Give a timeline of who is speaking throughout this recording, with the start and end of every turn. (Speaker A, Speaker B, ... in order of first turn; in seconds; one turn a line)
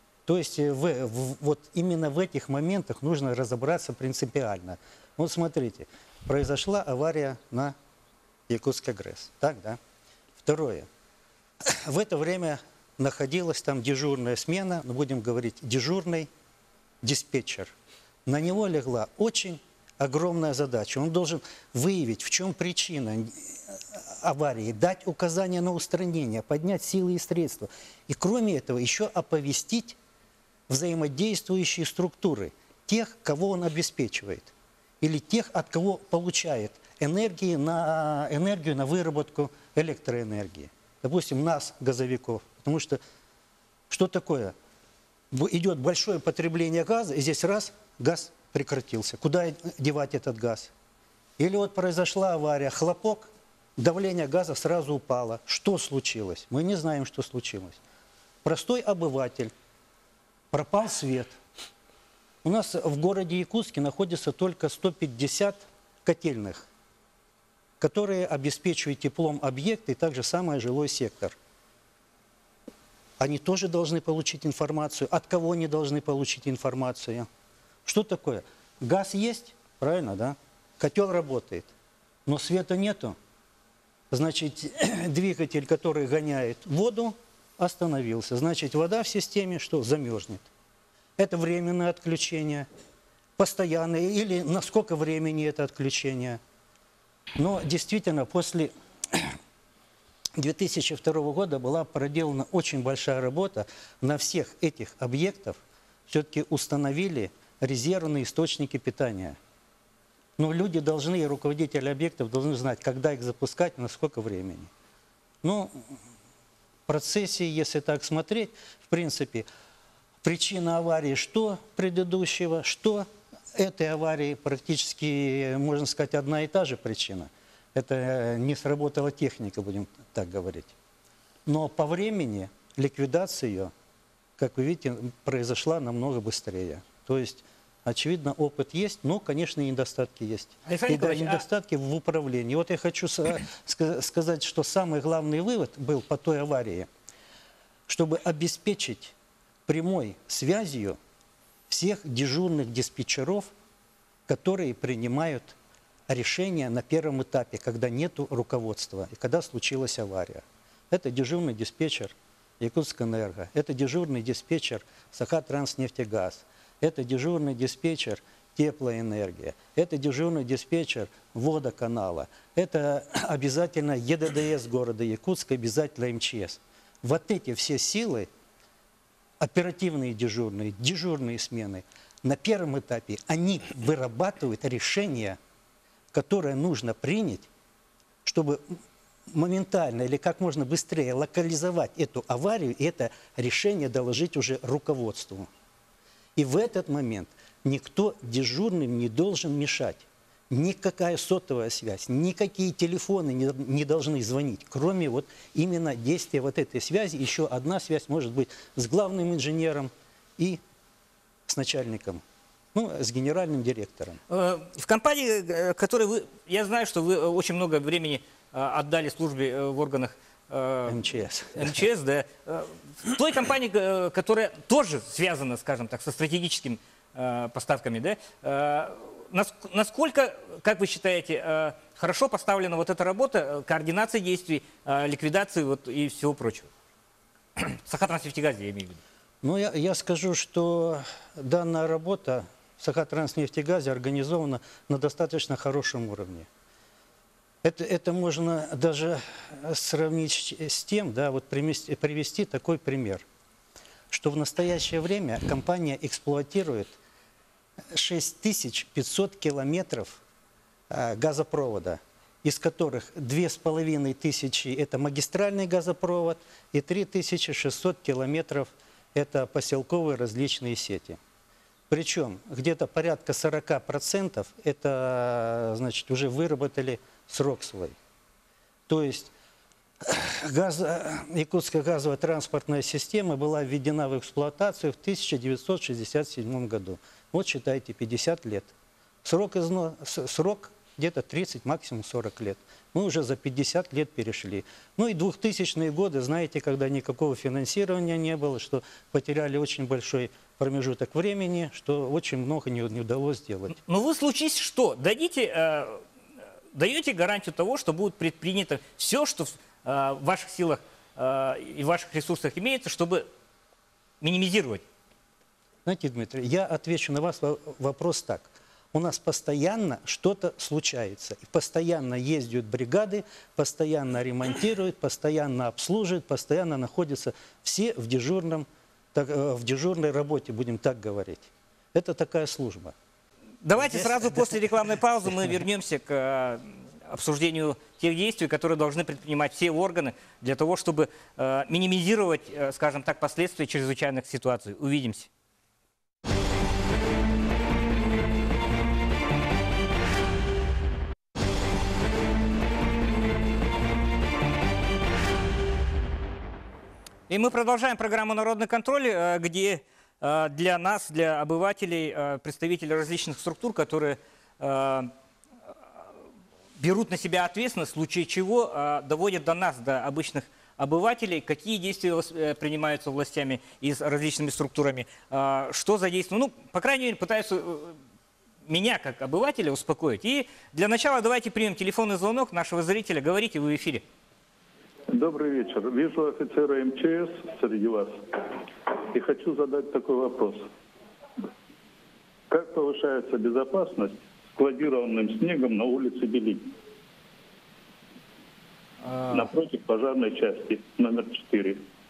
Speaker A: 0.3-7.8
Speaker A: 8.5-9.8
Speaker A: 10.4-10.9
Speaker A: 11.7-16.3
Speaker A: 17.0-17.7
Speaker A: 18.3-30.0
Speaker A: 30.7-43.0
Speaker A: 43.9-44.5
Speaker A: 45.3-50.7
Speaker A: 51.4-57.8
Speaker A: 58.5-59.5
Speaker A: 60.5-61.4
Speaker A: 62.4-66.7
Speaker A: 67.8-71.3
Speaker A: 73.2-77.3
Speaker A: 77.9-81.7
Speaker A: 82.3-83.2
Speaker A: 84.1-90.5
Speaker A: 91.2-92.7
Speaker A: 93.4-96.4
Speaker A: 97.4-99.4
Speaker A: 100.4-105.6
Speaker A: 106.1-109.4
Speaker A: 110.4-114.7
Speaker A: 115.4-115.8
Speaker A: 116.9-119.5
Speaker A: 120.2-130.7
Speaker A: 131.5-133.7
Speaker A: 134.4-146.9
Speaker B: 140.7-141.4
Speaker A: 147.9-149.1
Speaker A: 149.7-151.0
Speaker A: 151.7-153.5
Speaker A: 154.3-155.6
Speaker A: 156.1-178.3
Speaker A: 179.4-185.4
Speaker A: 186.1-187.5
Speaker A: 188.2-188.8
Speaker A: 189.3-195.5
Speaker A: 196.4-210.6
Speaker A: 211.5-212.2
Speaker A: 212.7-214.2
Speaker B: 214.3-236.7
Speaker A: 220.9-221.8
Speaker B: 237.6-239.0
Speaker A: 239.4-246.5
Speaker A: 247.6-253.2
Speaker A: 254.1-257.0
Speaker A: 257.9-260.2
Speaker A: 260.9-271.2
Speaker A: 271.9-277.9
Speaker A: 278.9-279.3
Speaker A: 280.0-288.7
Speaker A: 289.2-303.8
Speaker B: 303.8-306.0
Speaker B: 306.7-313.3
Speaker B: 314.2-314.8
Speaker A: 315.9-332.9
Speaker B: 333.6-345.3
Speaker A: 333.8-334.5
Speaker B: 357.3-365.1
Speaker B: 366.8-378.0
Speaker B: 378.7-384.0
Speaker C: 385.1-388.4
Speaker C: 389.1-390.7
Speaker C: 392.5-396.7
Speaker B: 399.0-399.5
Speaker C: 399.3-401.9